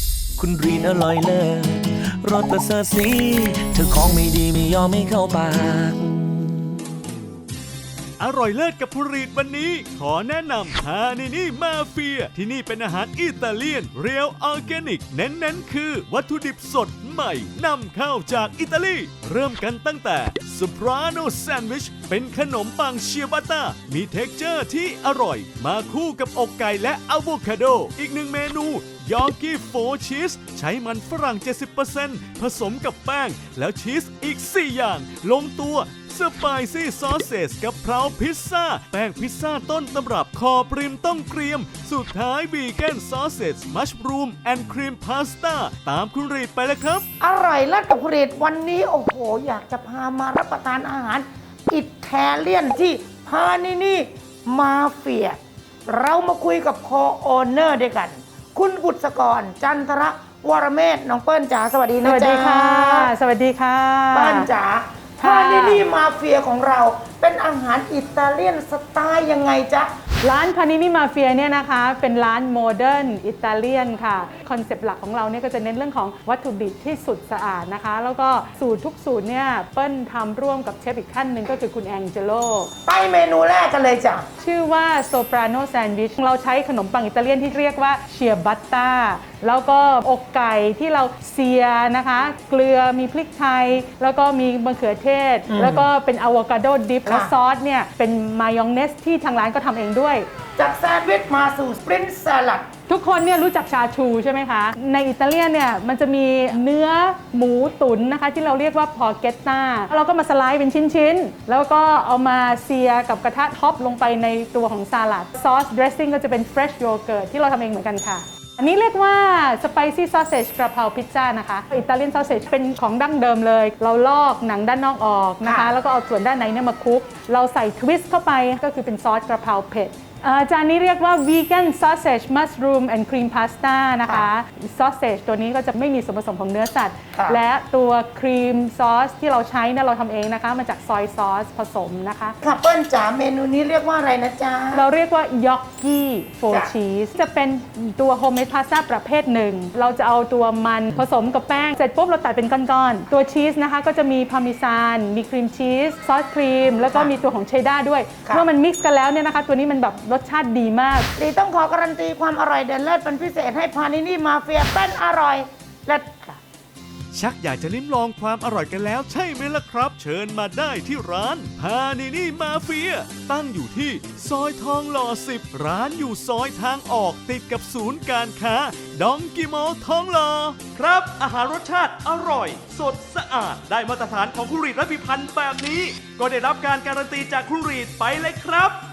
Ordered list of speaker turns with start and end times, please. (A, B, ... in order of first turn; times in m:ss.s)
0:00.4-0:06.6 A
0:08.2-0:47.0 B
0:47.2-1:03.1 C
1:02.0-1:04.5 D
1:04.1-1:09.9 C
1:05.2-1:05.8 D
1:10.2-1:22.7 D
1:22.8-1:24.3 C
1:24.4-1:40.3 D
1:35.5-1:35.9 C
1:37.0-1:37.3 C
1:40.6-1:42.7 C
1:42.9-2:22.4 D
2:05.4-2:05.7 C
2:17.1-2:17.4 C
2:22.4-2:24.8 C
2:24.7-2:41.1 D
2:41.2-2:46.4 C
2:47.1-3:08.8 B